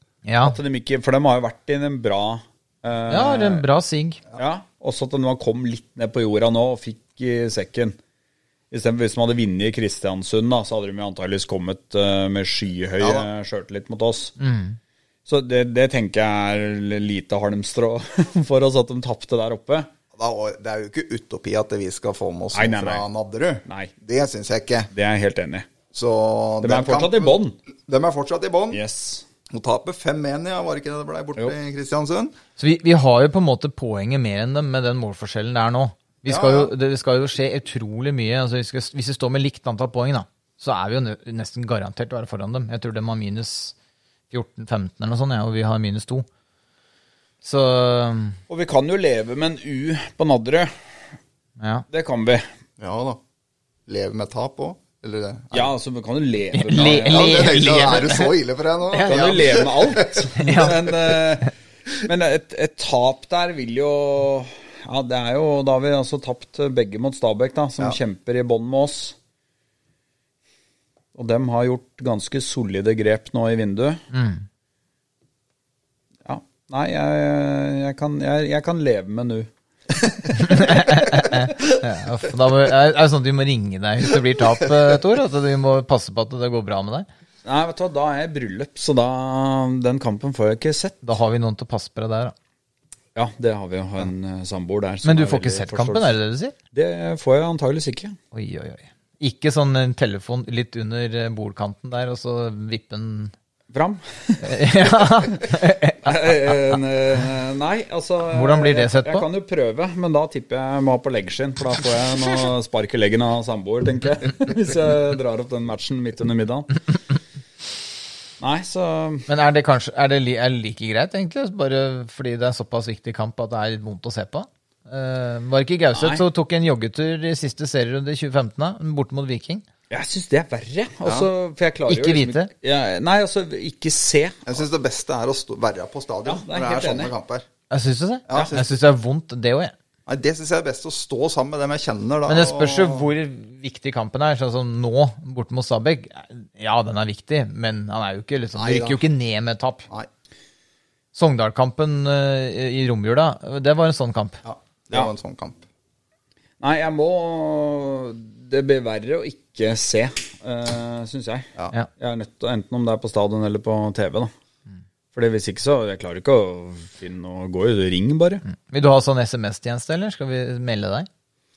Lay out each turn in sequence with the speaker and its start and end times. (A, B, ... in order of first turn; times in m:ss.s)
0:00.2-0:00.6 A
0:00.4-0:03.6 B
0:03.1-0:04.2 A
0:04.4-0:08.0 B
0:08.7-0:14.4 B
0:13.0-0:13.3 C
0:14.4-0:14.8 A
0:15.3-0:19.9 B
0:20.1-0:24.9 C
0:22.5-0:23.0 B
0:23.7-0:23.9 B
0:24.9-0:25.7 B
0:25.9-0:28.8 C
0:26.6-0:27.6 B
0:28.7-0:29.3 B
0:29.5-0:32.3 C
0:32.6-0:43.8 A
0:36.3-0:36.7 C
0:44.3-0:46.3 A
0:47.4-0:48.4 A
0:48.5-0:50.7 B
0:51.6-0:51.9 A
0:51.9-0:52.5 B
0:52.8-0:53.2 C
0:53.9-0:55.7 C
0:55.5-0:57.7 B
0:56.5-0:58.3 A
0:57.0-1:00.3 C
0:58.9-0:59.2 A
0:59.0-1:09.2 B
1:00.3-1:00.8 A
1:11.1-1:14.0 B
1:14.1-1:14.4 A
1:16.2-1:19.5 B
1:20.4-1:27.1 A
1:27.4-1:31.0 B
1:31.0-1:32.3 A
1:33.2-1:36.2 B
1:35.0-1:36.6 A
1:36.7-1:38.2 B
1:38.3-1:43.3 A
1:43.7-1:44.6 B
1:44.4-1:46.3 A
1:45.1-1:45.4 B
1:46.0-1:56.8 B
1:48.3-1:49.3 A
1:58.4-1:59.3 B
1:59.3-2:09.7 A
2:06.0-2:06.2 B
2:09.9-2:14.6 B
2:11.9-2:12.5 A
2:14.5-2:17.5 C
2:16.2-2:17.1 B
2:17.7-2:19.7 A
2:18.3-2:18.8 C
2:20.1-2:23.1 C
2:22.3-2:29.9 A
2:28.6-2:29.0 C
2:31.2-2:34.4 A
2:34.4-2:35.6 C
2:36.6-2:44.3 B
2:45.1-2:48.4 B
2:48.5-2:51.1 A